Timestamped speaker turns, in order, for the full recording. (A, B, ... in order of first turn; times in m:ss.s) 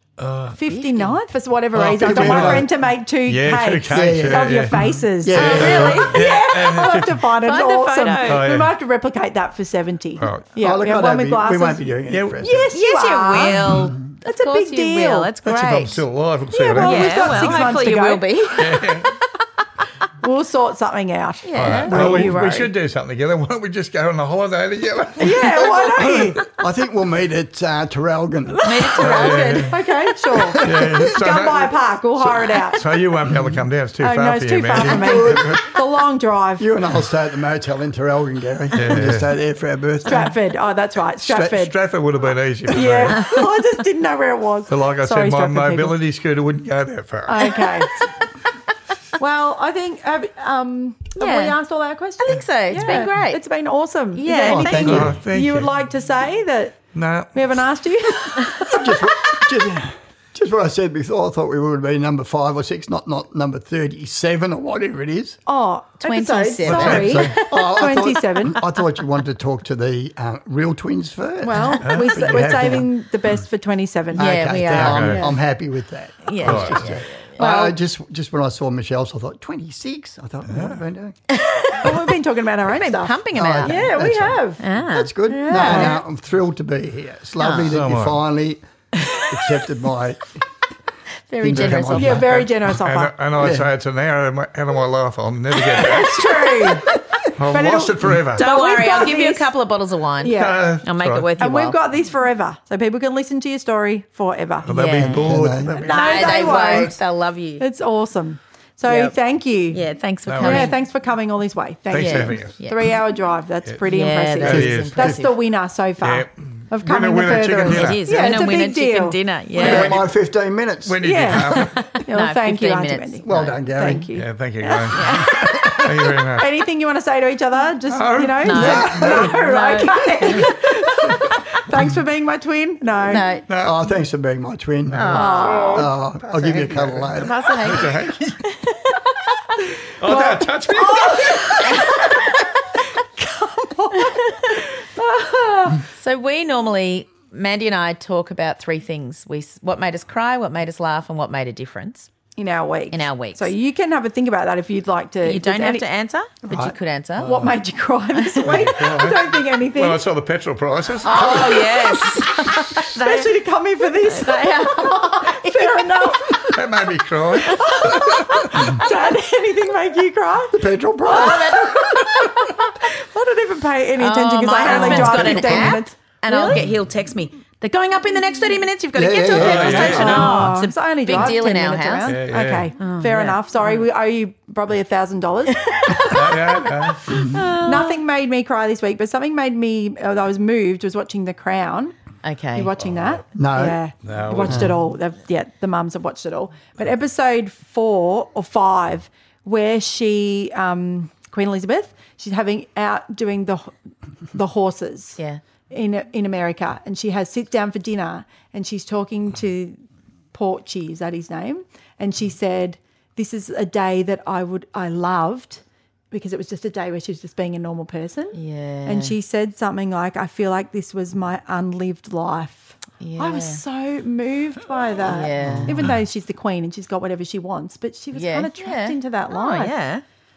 0:00.2-0:00.6 A
0:00.5-0:13.7 B
0:00.6-0:01.2 C
0:01.7-0:07.2 A
0:01.9-0:02.7 D
0:03.9-0:06.1 D
0:05.3-0:06.2 C
0:07.4-0:08.4 C
0:08.2-0:08.7 A
0:10.2-0:10.6 A
0:10.6-0:12.7 D
0:12.0-0:12.4 A
0:12.7-0:16.0 C
0:14.2-0:15.3 B
0:15.4-0:17.5 A
0:16.5-0:18.4 B
0:16.7-0:19.1 C
0:18.6-0:19.1 A
0:20.2-0:22.7 B
0:21.4-0:22.2 C
0:21.6-0:26.5 A
0:22.0-0:22.3 D
0:25.2-0:26.4 B
0:26.5-0:29.0 D
0:28.6-0:29.7 C
0:28.9-0:29.8 A
0:29.7-0:32.9 B
0:30.4-0:35.7 A
0:30.5-0:31.1 D
0:33.3-0:33.6 D
0:34.0-0:36.7 B
0:34.8-0:35.7 D
0:36.6-0:40.3 D
0:38.7-0:39.4 A
0:40.0-0:41.8 B
0:41.2-0:41.5 D
0:41.4-0:43.5 A
0:42.7-0:46.0 B
0:44.7-0:47.7 A
0:47.3-0:47.9 B
0:49.2-0:59.1 B
0:51.2-0:51.6 C
0:52.2-0:53.4 C
0:54.1-0:55.1 C
0:54.3-0:55.2 D
0:54.8-0:55.7 A
0:56.9-0:57.6 A
0:58.7-1:05.4 D
1:05.4-1:08.6 B
1:06.0-1:07.8 C
1:06.6-1:07.3 A
1:06.8-1:12.9 D
1:11.4-1:14.4 B
1:11.8-1:12.4 A
1:14.1-1:21.2 D
1:14.2-1:15.2 C
1:14.6-1:15.3 A
1:15.0-1:15.3 B
1:16.2-1:17.4 C
1:16.4-1:17.0 A
1:17.3-1:17.8 B
1:20.5-1:20.8 A
1:21.3-1:22.1 C
1:21.8-1:24.6 B
1:22.7-1:23.9 C
1:23.3-1:30.4 D
1:24.6-1:26.0 C
1:25.3-1:26.0 B
1:27.4-1:27.7 C
1:27.6-1:28.2 A
1:29.1-1:29.6 C
1:31.3-1:32.2 C
1:31.4-1:32.4 D
1:31.5-1:36.6 A
1:31.8-1:33.3 B
1:33.4-1:33.7 D
1:35.6-1:39.5 B
1:37.3-1:38.5 A
1:38.3-1:41.8 C
1:40.2-1:40.8 B
1:40.3-1:41.3 A
1:41.4-1:44.7 B
1:44.6-1:46.5 A
1:44.7-1:45.2 C
1:45.2-1:45.9 D
1:45.7-1:47.0 B
1:45.8-1:47.6 C
1:47.6-1:49.8 B
1:48.8-1:49.2 C
1:49.7-1:50.8 C
1:50.2-1:50.7 A
1:50.4-1:59.2 B
1:51.9-1:52.6 A
1:51.9-1:52.8 C
1:53.8-1:55.3 C
1:54.4-1:55.2 A
1:54.5-1:55.2 D
1:56.0-1:58.0 A
1:57.7-2:00.0 C
1:59.6-2:00.1 A
1:59.6-2:01.1 D
2:00.8-2:02.0 A
2:01.0-2:13.3 B
2:01.9-2:03.6 C
2:03.2-2:04.1 D
2:04.1-2:06.6 A
2:04.9-2:05.3 C
2:07.9-2:09.3 A
2:08.4-2:10.5 C
2:08.6-2:08.9 D
2:13.1-2:13.4 C
2:13.5-2:13.8 A
2:13.6-2:17.5 D
2:14.9-2:15.7 A
2:14.9-2:15.9 C
2:15.1-2:15.9 B
2:16.4-2:18.4 A
2:17.2-2:18.5 C
2:20.0-2:21.5 A
2:20.0-2:25.9 B
2:21.6-2:21.9 C
2:24.0-2:24.3 C
2:25.9-2:32.1 C
2:32.4-2:35.8 B
2:32.9-2:33.5 C
2:35.2-2:37.4 C
2:36.5-2:36.7 D
2:37.2-2:37.6 A
2:37.2-2:40.1 B
2:38.4-2:41.9 A
2:41.0-2:43.3 C
2:41.2-2:41.7 B
2:42.2-2:46.6 B
2:44.0-2:45.9 C
2:46.5-2:48.8 A
2:47.5-2:56.7 B
2:50.5-2:51.8 D
2:51.0-2:52.7 C
2:54.0-3:02.2 C
2:54.9-2:55.2 A
2:58.9-2:59.9 D
2:59.3-3:00.5 A
2:59.4-3:12.0 B
3:02.0-3:02.7 A
3:02.8-3:03.8 C
3:05.6-3:06.4 C
3:06.1-3:07.4 A
3:07.1-3:08.0 C
3:12.2-3:12.7 C
3:12.5-3:23.7 B
3:13.3-3:13.8 D
3:14.0-3:14.8 A
3:14.5-3:14.7 D
3:24.3-3:25.2 B
3:25.7-3:49.7 B
3:38.3-3:39.1 C
3:43.0-3:43.6 C
3:45.1-3:45.8 C
3:45.4-3:45.9 A
3:48.1-3:50.0 C